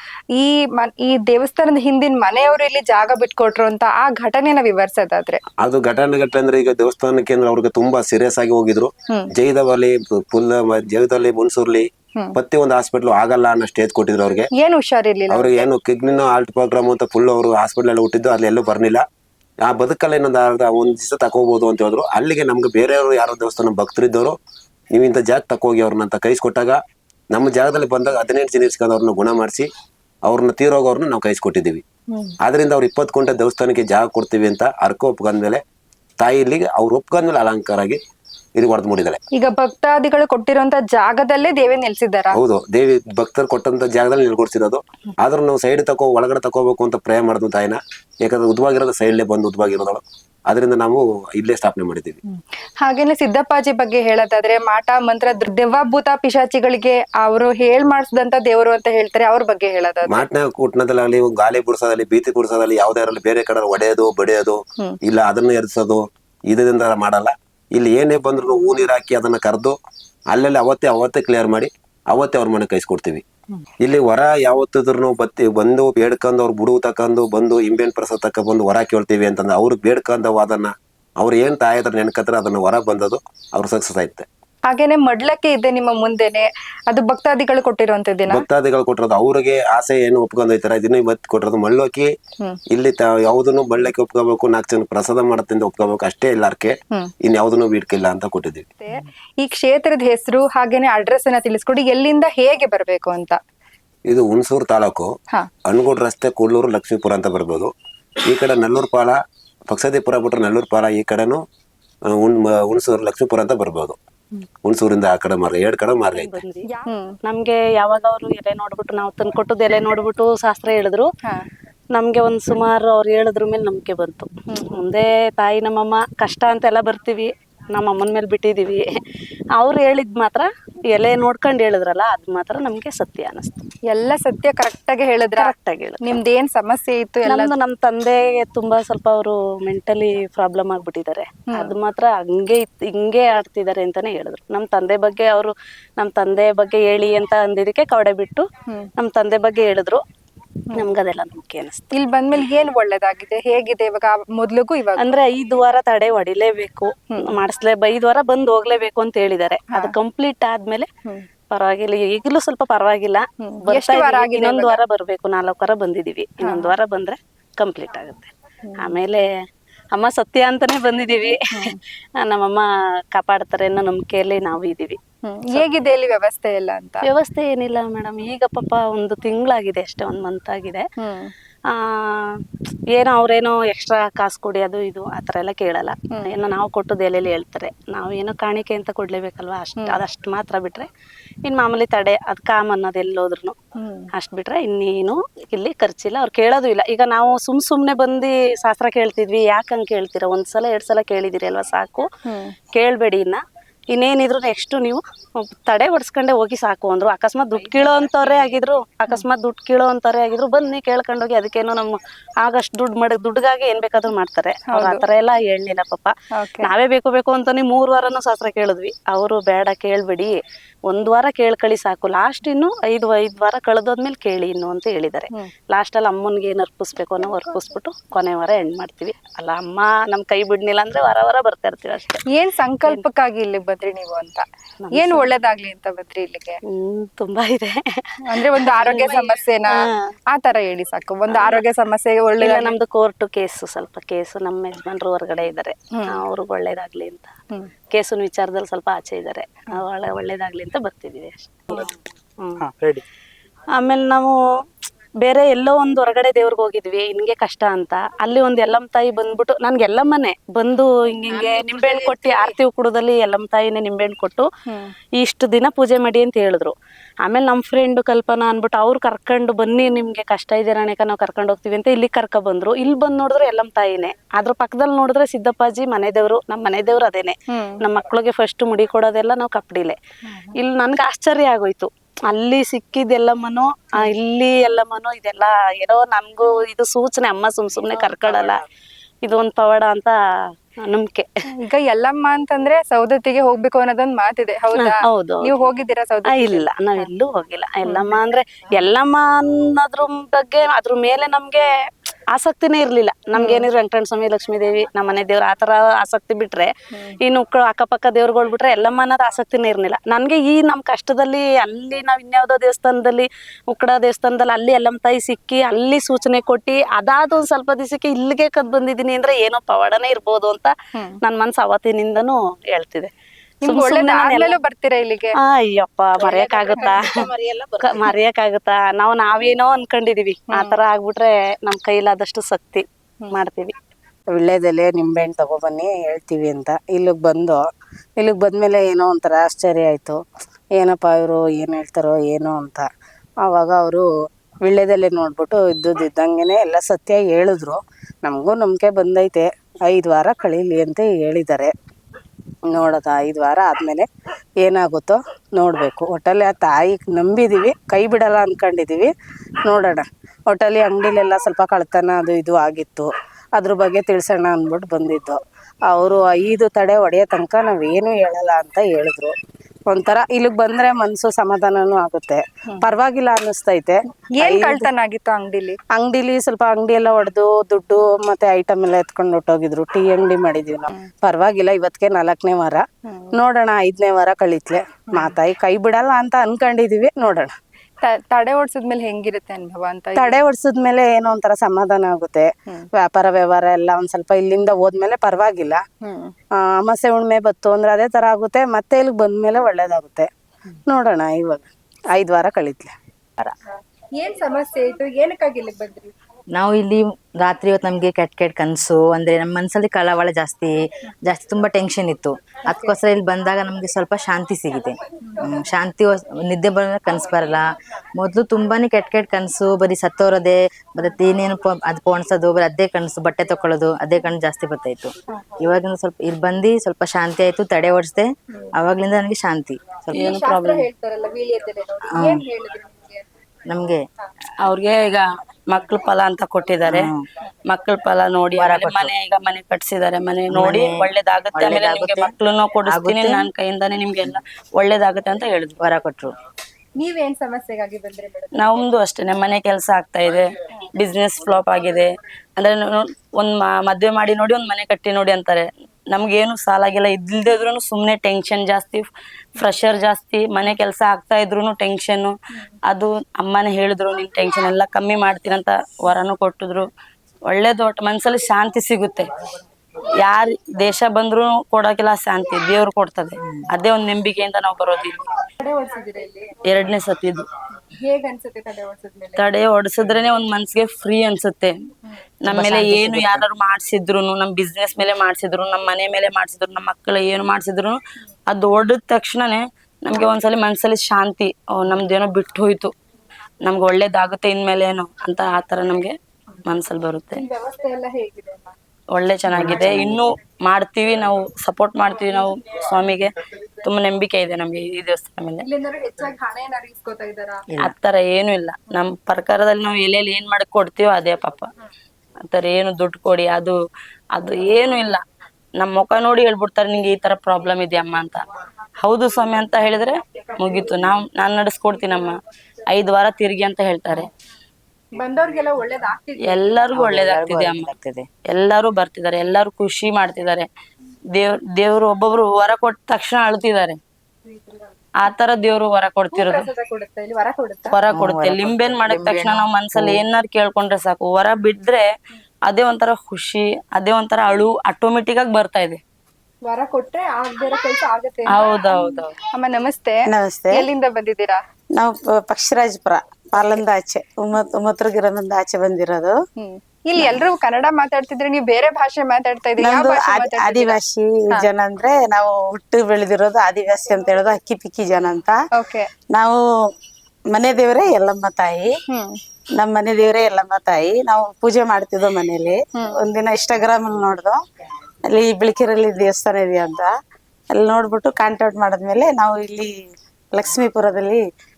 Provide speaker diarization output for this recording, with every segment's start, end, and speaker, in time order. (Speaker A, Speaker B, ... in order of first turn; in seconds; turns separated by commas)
Speaker A: 0.3-5.4, Speaker B: 5.6-14.5, Speaker A: 14.6-15.7, Speaker B: 15.3-19.0, Speaker B: 19.6-24.4, Speaker B: 24.9-26.8, Speaker B: 27.3-29.7, Speaker B: 30.2-31.8, Speaker B: 32.4-35.6, Speaker B: 36.2-38.0, Speaker B: 38.5-39.2, Speaker A: 39.4-42.4, Speaker B: 42.3-52.2, Speaker A: 52.8-60.2, Speaker B: 60.1-69.8, Speaker B: 70.3-73.2, Speaker B: 73.8-84.2, Speaker A: 84.7-88.4, Speaker B: 88.3-92.1, Speaker B: 92.7-98.7, Speaker A: 98.8-103.4, Speaker B: 104.1-105.1, Speaker B: 105.7-107.7, Speaker B: 108.2-109.2, Speaker B: 109.7-111.4, Speaker B: 112.1-114.0, Speaker B: 114.6-116.4, Speaker C: 116.1-116.7, Speaker A: 116.7-117.2, Speaker C: 117.2-121.1, Speaker C: 121.9-128.8, Speaker A: 124.5-124.8, Speaker C: 129.6-133.7, Speaker A: 133.9-137.5, Speaker C: 135.4-136.2, Speaker C: 137.2-148.4, Speaker C: 149.0-150.0, Speaker C: 150.7-151.9, Speaker A: 151.9-155.1, Speaker C: 155.0-160.9, Speaker C: 161.5-169.2, Speaker A: 163.4-164.8, Speaker A: 166.4-166.7, Speaker A: 168.7-169.0, Speaker C: 169.9-171.4, Speaker A: 171.5-171.8, Speaker C: 172.2-175.0, Speaker A: 175.2-177.1, Speaker C: 177.0-180.8, Speaker A: 181.0-181.3, Speaker C: 182.0-182.3, Speaker C: 182.9-190.9, Speaker C: 191.4-193.6, Speaker A: 193.8-194.1, Speaker C: 194.1-202.1, Speaker A: 202.2-202.5, Speaker C: 202.7-203.4, Speaker C: 203.9-232.2, Speaker A: 214.7-215.0, Speaker A: 216.3-216.7, Speaker A: 232.3-236.6, Speaker C: 234.8-235.3, Speaker C: 236.7-237.8, Speaker A: 238.2-239.7, Speaker C: 238.4-239.7, Speaker A: 240.3-242.7, Speaker C: 241.3-241.6, Speaker C: 242.4-247.3, Speaker C: 247.9-252.7, Speaker C: 253.8-254.3, Speaker C: 255.2-264.4, Speaker A: 261.3-262.5, Speaker C: 265.2-266.7, Speaker C: 267.2-280.0, Speaker A: 277.5-277.8, Speaker A: 280.3-280.5, Speaker C: 280.5-288.6, Speaker D: 288.0-288.6, Speaker C: 289.2-290.1, Speaker C: 290.8-291.3, Speaker A: 291.6-297.0, Speaker C: 294.8-295.6, Speaker C: 296.3-301.7, Speaker A: 297.9-298.1, Speaker C: 302.3-306.7, Speaker A: 303.4-303.6, Speaker C: 307.2-323.1, Speaker A: 323.6-325.4, Speaker C: 323.6-324.6, Speaker C: 325.4-327.1, Speaker D: 326.1-328.1, Speaker C: 327.8-333.8, Speaker D: 334.3-337.6, Speaker D: 338.2-340.2, Speaker D: 340.8-342.9, Speaker D: 343.4-344.1, Speaker D: 344.6-351.7, Speaker D: 352.7-354.1, Speaker D: 354.6-359.1, Speaker D: 359.6-369.3, Speaker D: 369.9-374.9, Speaker A: 374.4-375.8, Speaker D: 375.9-387.5, Speaker A: 388.0-390.4, Speaker D: 390.1-395.8, Speaker A: 396.0-396.3, Speaker D: 396.6-400.3, Speaker D: 400.9-402.9, Speaker A: 404.2-406.1, Speaker E: 406.5-417.6, Speaker E: 418.2-430.2, Speaker A: 430.2-433.2, Speaker F: 430.2-430.9, Speaker E: 432.1-432.4, Speaker E: 433.7-434.0, Speaker F: 434.6-437.1, Speaker E: 436.8-437.2, Speaker F: 437.7-445.7, Speaker E: 438.6-439.1, Speaker E: 440.5-442.3, Speaker E: 442.9-443.5, Speaker E: 445.8-446.3, Speaker A: 447.0-448.9, Speaker F: 448.6-459.1, Speaker F: 459.6-462.3, Speaker F: 462.9-466.8, Speaker F: 467.5-469.3, Speaker F: 470.2-475.2, Speaker E: 473.4-473.6, Speaker A: 475.6-476.6, Speaker F: 476.6-477.4, Speaker A: 478.0-479.4, Speaker F: 479.4-481.7, Speaker F: 482.4-488.0, Speaker E: 482.4-483.4, Speaker F: 488.5-492.9, Speaker F: 493.6-496.1, Speaker F: 496.6-497.4, Speaker A: 497.3-498.7, Speaker F: 499.1-503.3, Speaker E: 499.5-500.2, Speaker A: 499.6-500.1, Speaker F: 503.8-505.6, Speaker A: 505.6-507.6, Speaker F: 507.9-511.6, Speaker F: 512.5-513.7, Speaker F: 514.3-515.2, Speaker F: 515.8-518.4, Speaker F: 519.0-522.4, Speaker F: 522.9-524.3, Speaker A: 525.1-526.6, Speaker F: 526.5-527.9, Speaker E: 526.9-528.2, Speaker F: 528.5-530.7, Speaker F: 531.3-534.0, Speaker A: 534.5-534.8, Speaker F: 535.2-536.6, Speaker A: 536.3-538.0, Speaker F: 537.9-542.0, Speaker E: 538.1-540.2, Speaker F: 542.7-546.0, Speaker A: 546.6-551.6, Speaker F: 548.5-549.3, Speaker G: 550.3-550.9, Speaker G: 551.9-556.4, Speaker A: 556.6-561.0, Speaker G: 559.8-565.6, Speaker A: 565.7-566.1, Speaker G: 566.3-566.6, Speaker G: 567.5-568.9, Speaker G: 569.8-574.6, Speaker G: 575.3-577.1, Speaker G: 577.7-579.9, Speaker G: 580.5-581.4